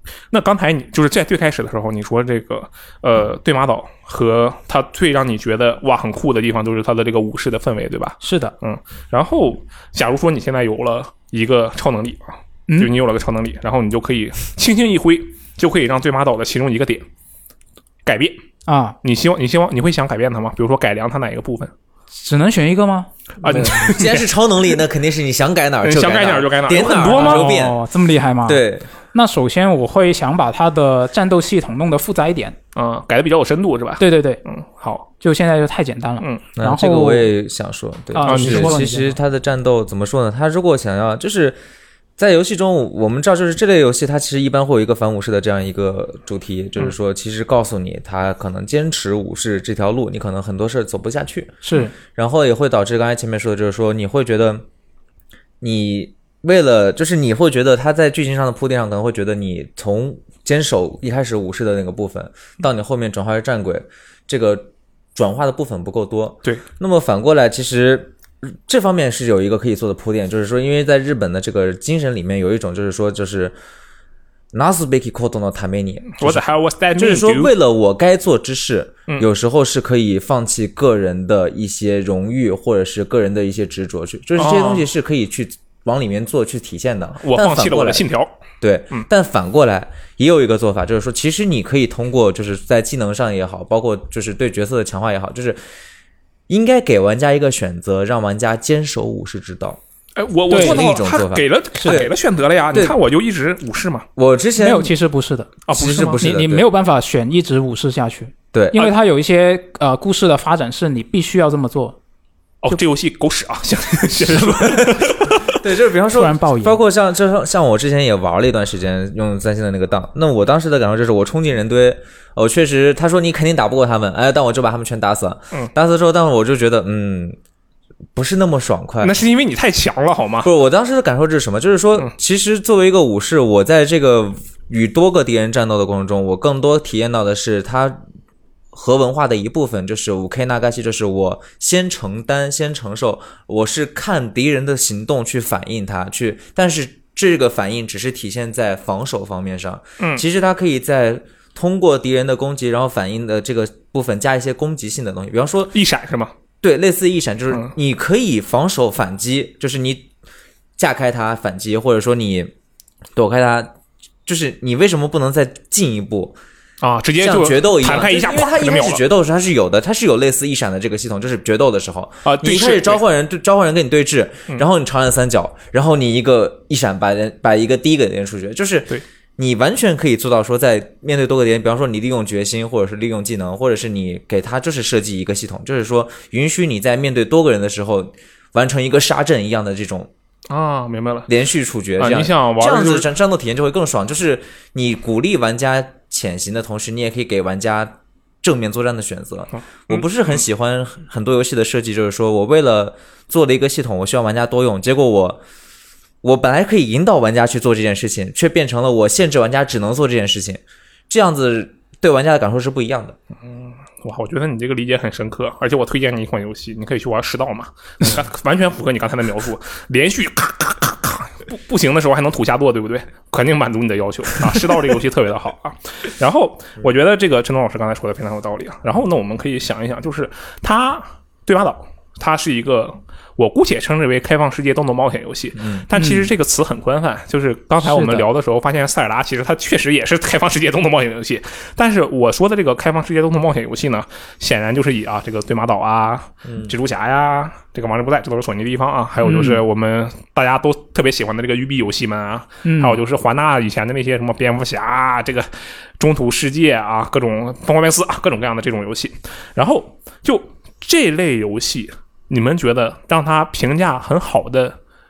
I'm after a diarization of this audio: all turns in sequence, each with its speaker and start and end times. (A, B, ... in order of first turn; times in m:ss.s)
0:00.3-0:17.1 A
0:08.2-0:08.5 B
0:18.1-0:18.4 A
0:18.7-0:19.0 B
0:19.0-0:21.7 A
0:22.2-0:23.1 B
0:23.4-0:24.3 A
0:23.4-0:27.8 C
0:25.8-0:27.5 A
0:27.0-0:32.6 B
0:28.4-0:28.9 C
0:32.8-0:35.1 A
0:34.0-0:34.4 B
0:35.2-0:37.3 B
0:36.6-0:41.6 C
0:38.1-0:39.2 B
0:38.2-0:38.8 A
0:42.2-0:51.6 C
0:51.6-0:51.9 B
0:52.1-0:54.6 C
0:55.6-1:13.6 C
1:14.5-1:16.4 C
1:16.1-1:17.5 A
1:17.0-1:28.1 C
1:24.4-1:24.9 A
1:27.2-1:28.3 A
1:28.6-1:35.6 C
1:36.5-1:39.8 C
1:40.2-1:44.1 A
1:40.5-1:40.9 B
1:40.5-1:42.1 C
1:42.7-1:43.0 C
1:44.2-1:44.9 C
1:44.6-1:52.0 B
1:45.7-1:46.2 A
1:45.7-1:46.7 C
1:48.5-1:48.9 C
1:52.6-1:55.6 A
1:54.4-2:07.4 C
1:56.1-1:56.8 B
2:08.2-2:09.2 C
2:09.0-2:10.5 A
2:10.4-2:18.0 C
2:18.7-2:35.8 C
2:35.7-2:36.3 A
2:36.6-2:40.1 C
2:40.8-2:42.5 C
2:43.2-2:43.7 C
2:44.3-2:46.4 C
2:46.8-2:49.0 A
2:47.2-3:10.1 C
2:52.2-2:53.0 A
3:10.5-3:11.3 A
3:11.3-3:25.4 C
3:12.0-3:13.1 A
3:26.2-3:33.2 C
3:33.4-4:24.8 A
3:55.6-3:55.8 C
3:56.0-3:56.3 B
3:57.8-3:58.3 B
4:06.5-4:06.7 C
4:09.2-4:09.6 B
4:12.6-4:13.0 B